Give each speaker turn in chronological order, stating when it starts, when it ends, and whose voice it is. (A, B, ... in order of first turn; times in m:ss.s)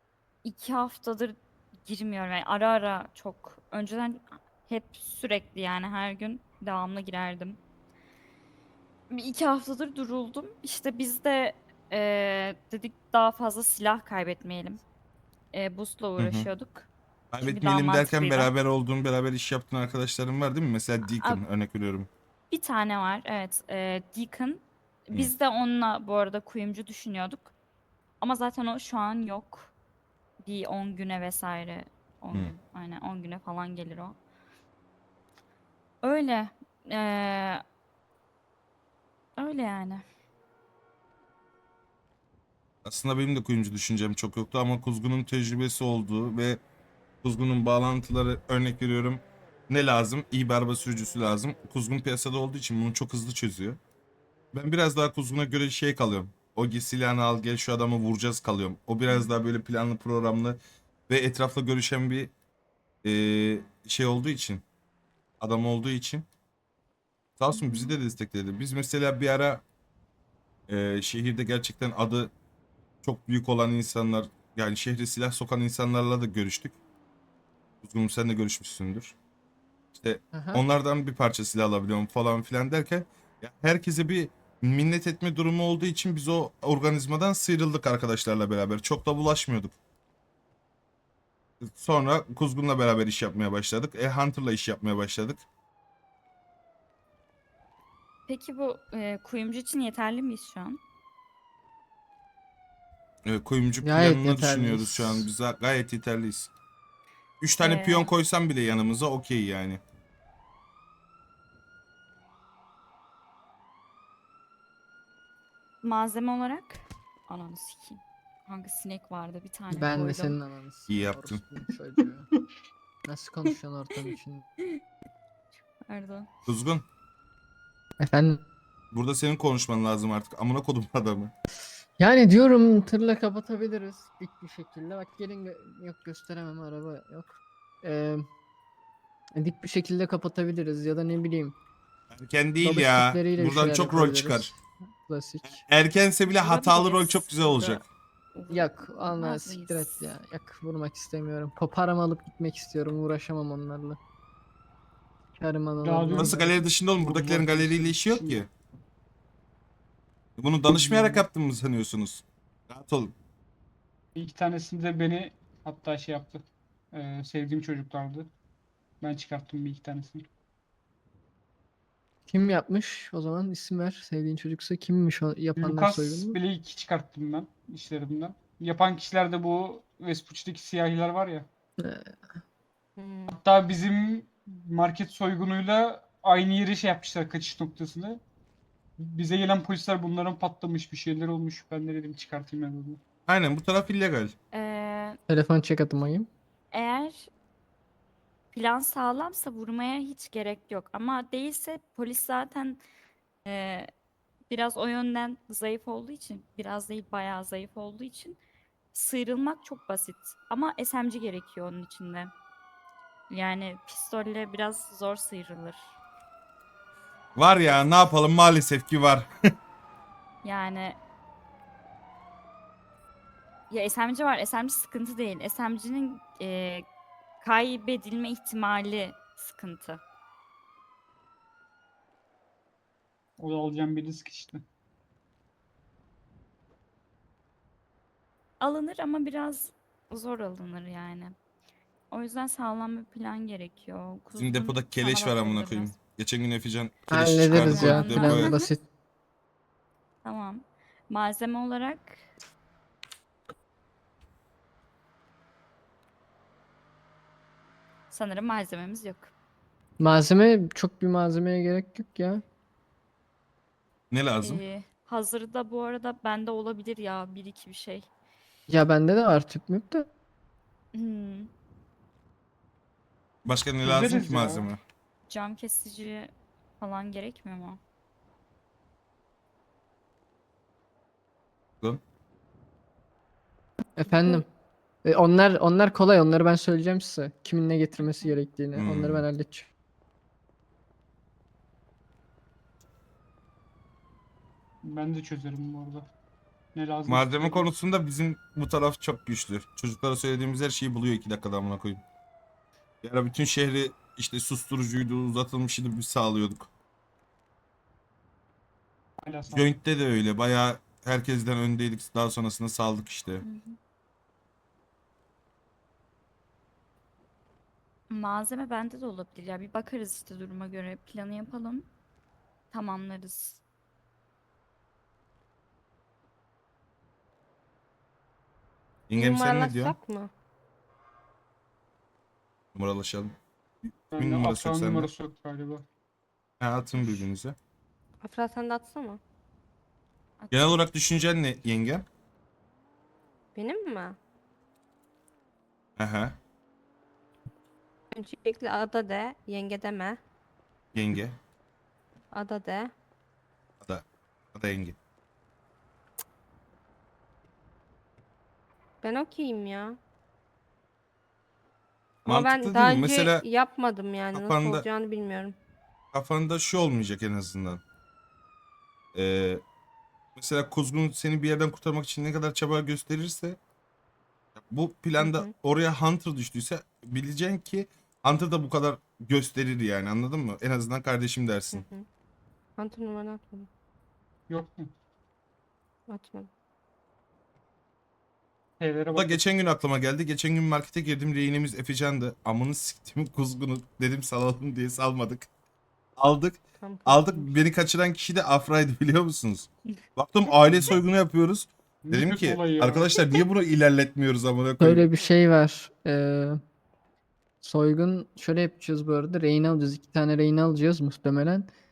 0:00.4-0:07.6 A
0:09.1-0:14.8 A
0:15.5-0:16.9 A
0:16.2-0:16.5 B
0:17.3-0:22.1 B
0:17.4-0:18.5 A
0:21.0-0:21.4 A
0:22.5-0:27.5 A
0:28.2-0:29.7 A
0:30.4-0:34.2 A
0:36.0-0:37.6 A
0:39.4-0:40.0 A
0:42.8-0:46.6 B
0:47.2-0:53.8 B
0:54.5-1:00.6 B
0:59.1-0:59.4 A
1:01.1-1:02.3 B
1:03.0-1:04.6 B
1:05.4-1:06.3 B
1:07.4-1:09.6 B
1:07.5-1:07.9 A
1:10.7-1:12.3 B
1:13.0-1:16.8 B
1:17.8-1:19.2 B
1:19.9-1:29.8 B
1:20.3-1:20.6 C
1:31.6-1:35.4 B
1:38.3-1:40.8 A
1:43.3-1:46.5 B
1:43.8-1:45.3 C
1:47.4-1:49.8 B
1:47.6-1:48.1 A
1:55.8-2:00.4 A
1:59.7-2:02.3 C
2:00.9-2:01.4 B
2:03.1-2:04.5 C
2:05.9-2:06.3 A
2:06.5-2:06.8 B
2:08.0-2:08.4 C
2:08.9-2:11.3 B
2:12.0-2:17.3 C
2:17.8-2:18.3 C
2:19.4-2:21.6 C
2:22.1-2:24.5 B
2:22.6-2:25.6 C
2:25.4-2:27.9 B
2:26.3-2:30.2 A
2:28.5-2:34.0 C
2:35.4-2:36.4 C
2:35.8-2:38.5 D
2:36.1-2:38.5 B
2:40.4-2:43.1 B
2:40.7-2:41.2 D
2:44.2-2:48.3 D
2:49.0-2:50.3 D
2:52.3-2:56.4 C
2:55.6-3:01.5 D
3:01.8-3:02.2 C
3:03.0-3:03.4 E
3:03.3-3:08.2 D
3:09.0-3:13.0 D
3:13.3-3:14.3 B
3:14.5-3:15.2 A
3:15.3-3:16.3 C
3:16.7-3:17.3 A
3:18.5-3:22.8 A
3:23.4-3:23.9 A
3:24.5-3:28.4 A
3:28.9-3:32.3 A
3:33.3-3:36.0 A
3:37.4-3:39.3 B
3:40.4-3:41.0 A
3:43.7-3:46.9 A
3:47.4-3:50.0 A
3:53.4-3:54.6 D
3:58.6-4:01.4 A
4:02.1-4:06.0 A
4:04.4-4:08.5 B
4:07.1-4:08.8 C
4:07.5-4:08.7 A
4:10.2-4:12.3 A
4:18.1-4:19.3 A
4:20.0-4:22.4 C
4:24.1-4:24.6 B
4:24.4-4:28.1 A
4:28.7-4:30.1 C
4:30.9-4:31.5 A
4:33.4-4:34.8 B
4:33.8-4:34.7 D
4:35.3-4:37.8 A
4:44.0-4:44.5 C
4:45.0-4:49.7 C
4:48.0-4:48.4 A
4:48.8-4:49.3 B
4:54.8-4:56.1 D
4:56.8-4:57.7 D
4:57.1-5:02.0 B
5:03.0-5:06.7 B
5:09.2-5:09.8 D
5:09.5-5:13.4 B
5:13.4-5:13.8 A
5:18.1-5:21.9 A
5:22.7-5:23.6 A
5:29.1-5:30.0 B
5:29.2-5:30.3 E
5:32.8-5:33.4 B
5:34.1-5:35.8 D
5:34.2-5:35.1 B
5:36.6-5:37.6 B
5:38.2-5:39.2 E
5:40.4-5:40.8 A
5:40.5-5:42.0 B
5:43.6-5:44.2 E
5:46.0-5:46.4 B
5:48.1-5:50.2 E
5:50.9-5:51.4 B
5:52.3-5:52.9 E
5:53.8-5:55.0 B
5:59.0-6:00.0 E
6:02.3-6:03.4 B
6:02.3-6:05.6 E
6:04.3-6:04.8 B
6:06.1-6:07.8 B
6:09.2-6:09.6 B
6:10.4-6:13.6 B
6:14.6-6:21.8 B
6:15.2-6:15.5 E
6:21.7-6:22.1 E
6:22.8-6:23.7 E
6:24.5-6:24.9 D
6:26.1-6:26.5 E
6:28.8-6:29.4 D
6:29.1-6:35.5 B
6:36.2-6:45.1 B
6:36.8-6:37.5 E
6:40.7-6:41.0 D
6:42.0-6:43.2 D
6:44.8-6:46.6 C
6:47.6-6:51.7 C